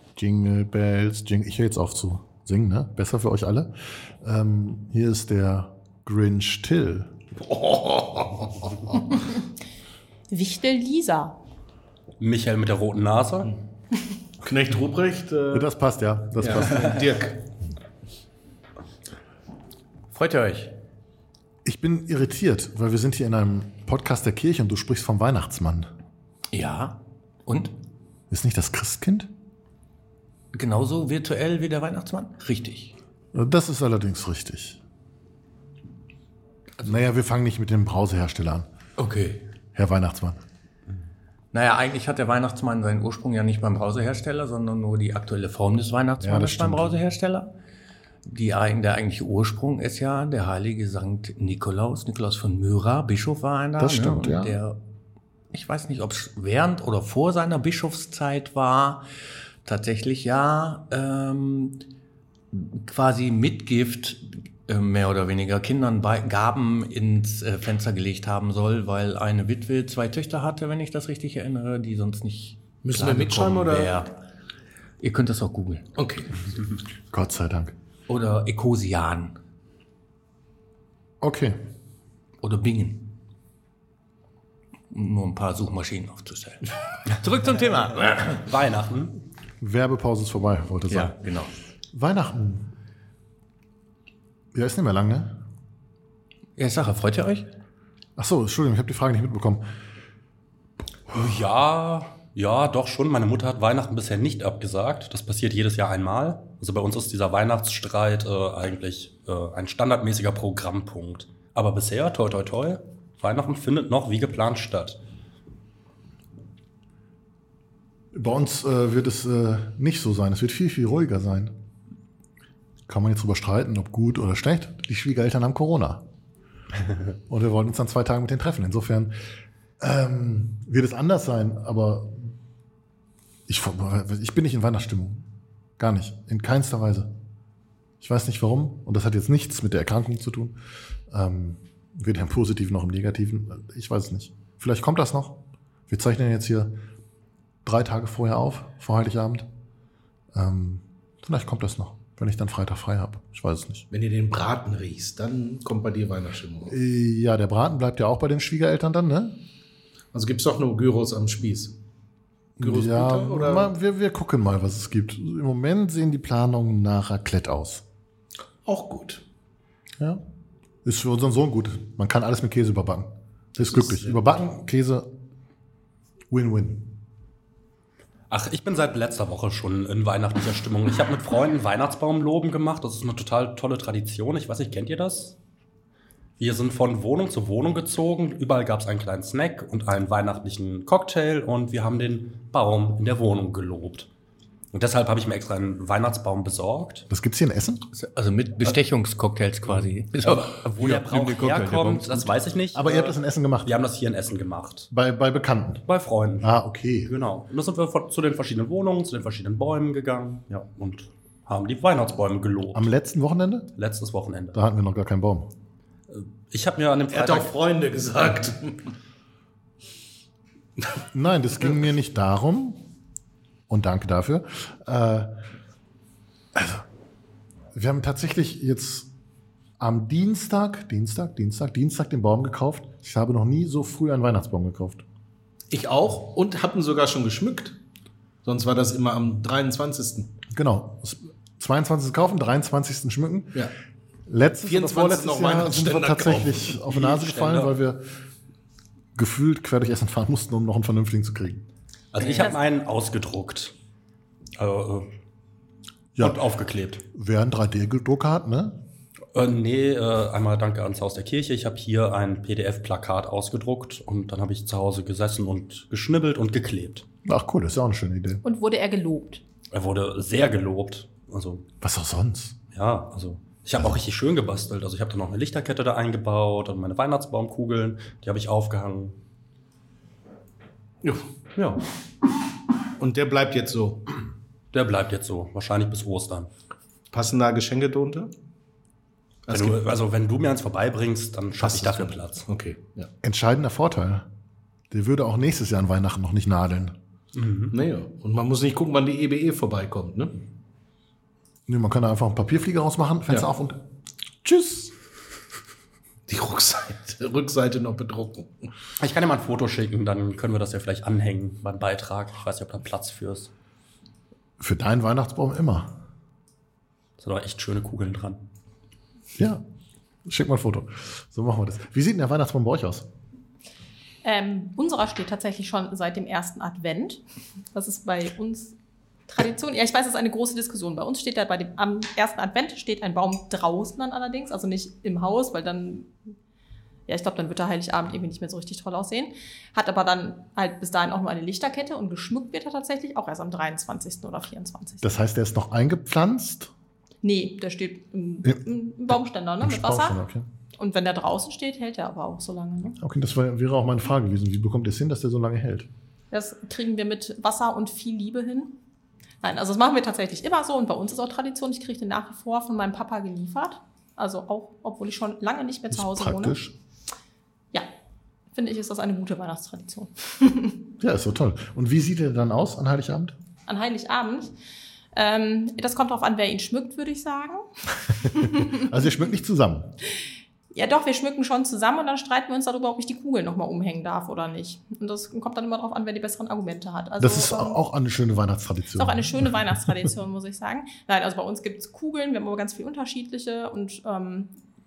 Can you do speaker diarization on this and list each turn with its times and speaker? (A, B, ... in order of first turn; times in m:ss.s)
0:00.2-0:07.1 A
0:07.4-0:09.0 B
0:10.3-0:11.4 C
0:12.2-0:13.6 D
0:14.4-0:15.6 B
0:15.5-0:17.1 A
0:16.4-0:17.4 B
0:20.1-0:20.8 E
0:21.6-0:25.9 A
0:26.5-0:27.7 E
0:28.3-0:29.3 A
0:30.5-0:32.9 E
0:33.3-0:34.8 A
0:36.8-0:38.7 A
0:39.0-0:39.4 E
0:39.7-0:40.4 A
0:41.5-0:47.5 E
0:46.2-0:47.0 A
0:48.2-0:54.8 E
0:53.8-0:54.6 A
0:55.5-0:59.0 E
0:59.6-1:01.8 E
1:02.5-1:14.1 E
1:12.8-1:13.9 B
1:15.0-1:15.9 E
1:16.0-1:16.4 B
1:17.1-1:17.7 A
1:18.1-1:19.4 E
1:21.2-1:21.6 A
1:22.4-1:23.1 E
1:24.9-1:28.5 E
1:28.3-1:29.1 D
1:29.6-1:31.2 A
1:30.9-1:31.5 E
1:31.9-1:32.7 A
1:34.5-1:35.4 A
1:36.6-1:37.5 E
1:38.2-1:39.6 A
1:41.1-1:55.0 D
1:58.1-2:01.5 A
2:02.9-2:06.0 A
2:07.3-2:09.1 A
2:09.8-2:12.3 A
2:13.5-2:17.1 A
2:18.0-2:20.6 A
2:21.1-2:26.8 A
2:27.6-2:29.5 A
2:30.3-2:33.9 A
2:33.9-2:36.8 B
2:36.7-2:39.4 A
2:40.1-2:41.7 B
2:42.6-2:47.8 A
2:42.6-2:43.7 B
2:48.6-2:49.2 B
2:50.8-2:55.1 A
2:53.8-2:54.2 B
2:56.3-2:57.0 A
2:58.3-3:05.4 D
3:06.4-3:14.1 D
3:14.7-3:17.0 D
3:17.1-3:17.8 A
3:17.9-3:22.4 E
3:20.2-3:24.9 D
3:22.7-3:23.7 A
3:24.9-3:25.8 A
3:25.8-3:26.5 D
3:26.4-3:27.1 A
3:27.0-3:32.9 D
3:32.7-3:33.7 A
3:33.8-3:34.6 D
3:34.5-3:35.5 A
3:36.1-3:37.5 D
3:37.1-3:38.9 B
3:41.1-3:42.8 A
3:43.7-3:45.3 A
3:46.5-3:46.8 A
3:47.7-3:49.1 A
3:49.8-3:55.0 A
3:55.7-3:57.8 B
3:58.4-4:00.3 B
4:00.5-4:03.7 A
4:04.3-4:08.1 A
4:04.6-4:06.8 B
4:06.9-4:07.7 D
4:09.1-4:11.6 A
4:12.1-4:13.7 D
4:12.2-4:12.5 C
4:14.6-4:15.1 D
4:16.2-4:16.4 A
4:16.2-4:17.0 D
4:17.1-4:18.8 A
4:19.3-4:27.0 D
4:27.2-4:28.4 A
4:28.4-4:29.4 C
4:29.7-4:31.6 D
4:31.8-4:32.5 A
4:32.7-4:39.1 D
4:41.6-4:41.8 D
4:43.0-4:44.0 B
4:44.7-4:46.5 D
4:47.1-4:48.3 B
4:49.5-4:49.8 B
4:49.5-4:52.4 D
4:51.6-4:53.1 B
4:53.2-4:54.3 A
4:54.9-4:57.0 A
4:57.3-4:57.7 D
4:57.7-5:00.4 B
5:01.7-5:03.8 A
5:04.4-5:04.9 A
5:06.3-5:08.7 B
5:09.0-5:13.5 D
5:14.6-5:15.9 A
5:17.2-5:18.4 D
5:19.3-5:19.6 A
5:20.2-5:23.1 A
5:24.2-5:27.2 C
5:27.7-5:28.8 C
5:29.3-5:36.1 C
5:37.1-5:45.1 C
5:45.0-5:46.7 A
5:47.2-5:50.2 C
5:49.6-5:50.4 A
5:50.8-5:53.0 C
5:53.0-5:55.9 A
5:56.3-5:58.7 C
5:59.4-6:06.6 C
6:05.9-6:06.7 A
6:08.5-6:10.8 C
6:11.0-6:13.4 A
6:13.7-6:14.5 C
6:15.1-6:18.8 C
6:18.4-6:19.9 A
6:20.7-6:27.8 C
6:27.2-6:29.5 A
6:29.0-6:34.5 C